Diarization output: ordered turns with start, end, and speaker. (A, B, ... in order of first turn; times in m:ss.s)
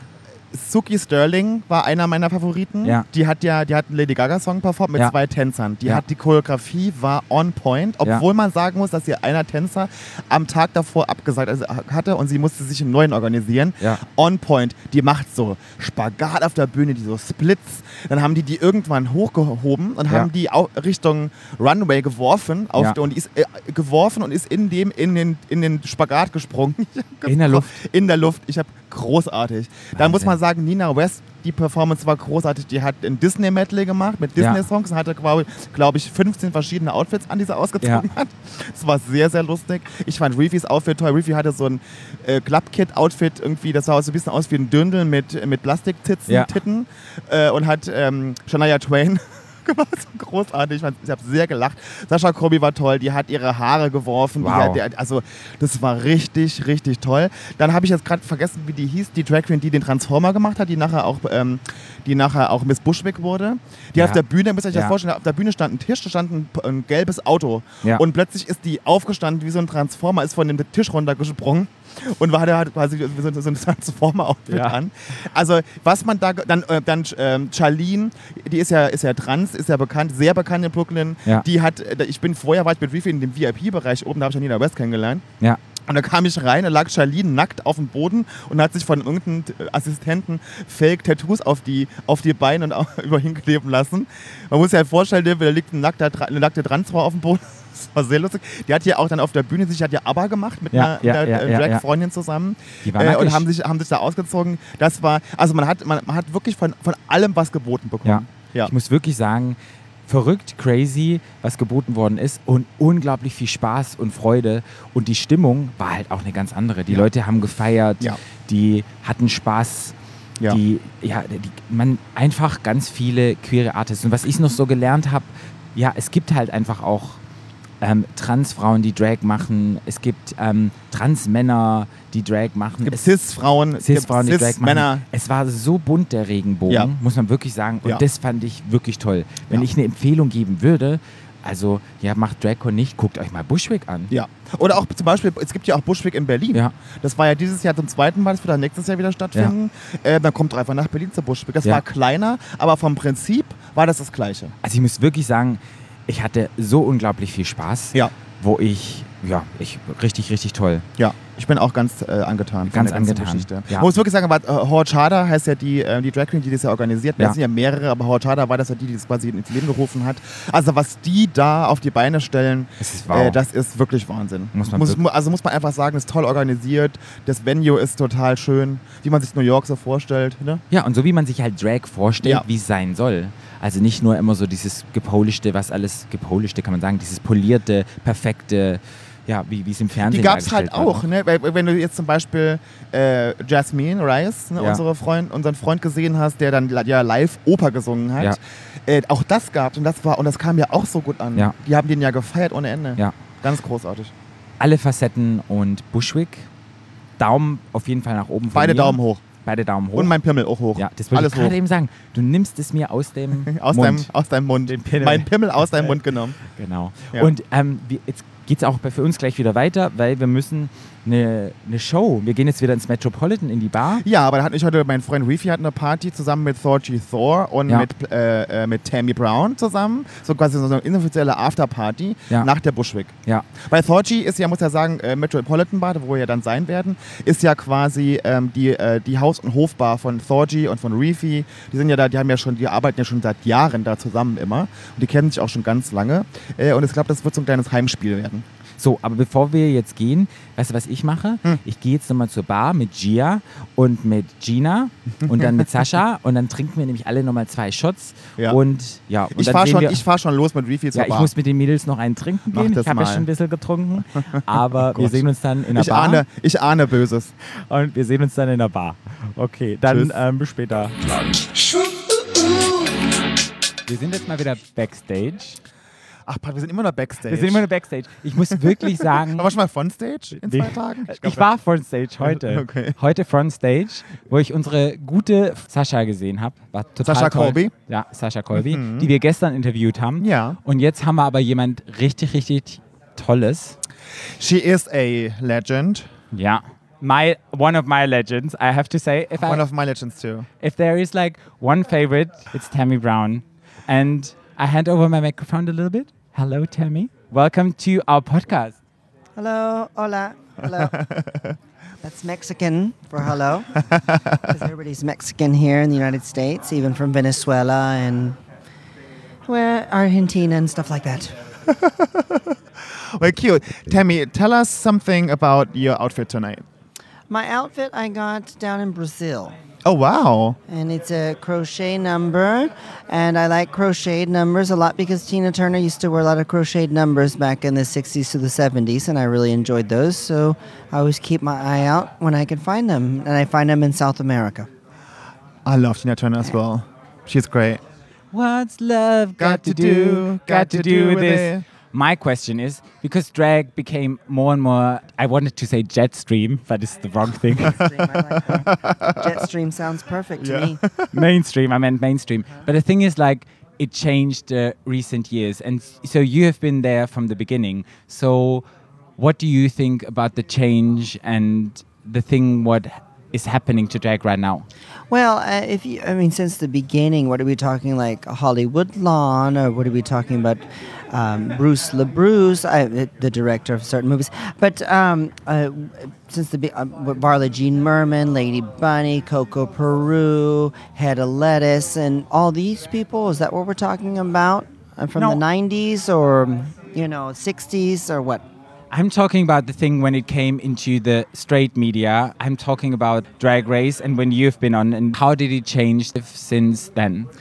0:00.5-1:25.2 A
0:27.2-0:27.7 B
0:29.9-0:30.4 B
0:34.4-0:34.6 B
0:37.8-0:38.1 B
0:46.3-0:46.5 B
0:54.4-0:54.8 B
1:04.0-1:04.2 B
1:14.5-1:14.8 B
1:25.8-1:48.7 A
1:40.7-1:41.8 B
1:42.8-1:43.5 B
1:48.0-1:59.9 B
2:00.4-2:07.2 B
2:07.8-2:13.1 B
2:12.8-2:15.0 A
2:13.8-2:24.1 B
2:16.7-2:16.9 A
2:24.1-2:34.5 A
2:34.6-2:40.8 B
2:41.0-3:00.6 A
2:42.7-2:43.9 B
2:52.8-2:53.4 B
2:54.5-2:55.0 B
3:00.7-3:11.0 B
3:10.0-3:24.1 A
3:14.6-3:14.8 B
3:24.6-3:26.5 B
3:27.2-3:30.2 B
3:28.5-3:29.2 A
3:29.9-3:31.6 A
3:30.8-3:34.1 B
3:33.4-3:36.4 A
3:34.6-3:44.0 B
3:44.0-4:08.4 A
4:08.8-4:20.0 B
4:15.2-4:15.7 A
4:19.3-4:21.3 A
4:20.9-4:26.2 B
4:22.5-4:23.3 A
4:24.3-4:27.3 A
4:27.5-4:31.0 B
4:29.8-4:30.2 A
4:33.9-4:35.6 B
4:36.2-4:37.6 A
4:37.3-4:39.5 B
4:38.5-4:41.5 A
4:40.4-4:53.8 B
4:42.2-4:43.0 A
4:47.0-4:47.7 A
4:48.5-4:49.1 A
4:50.2-4:50.6 A
4:54.4-4:56.1 A
4:56.3-4:59.6 B
4:59.4-5:00.5 A
5:00.6-5:08.8 B
5:09.4-5:11.0 C
5:10.6-5:11.6 A
5:12.0-5:13.8 C
5:13.9-5:14.5 A
5:14.4-5:18.4 C
5:19.5-5:21.4 C
5:21.7-5:26.6 A
5:27.3-5:29.6 C
5:29.8-5:30.6 A
5:30.7-5:44.7 C
5:45.6-5:47.8 A
5:48.3-5:57.8 B
5:49.4-5:51.6 A
5:57.6-5:59.5 A
5:57.7-6:00.8 C
6:00.4-6:01.1 A
6:01.1-6:08.6 B
6:09.2-6:14.7 B
6:15.1-6:38.4 C
6:38.9-6:47.3 B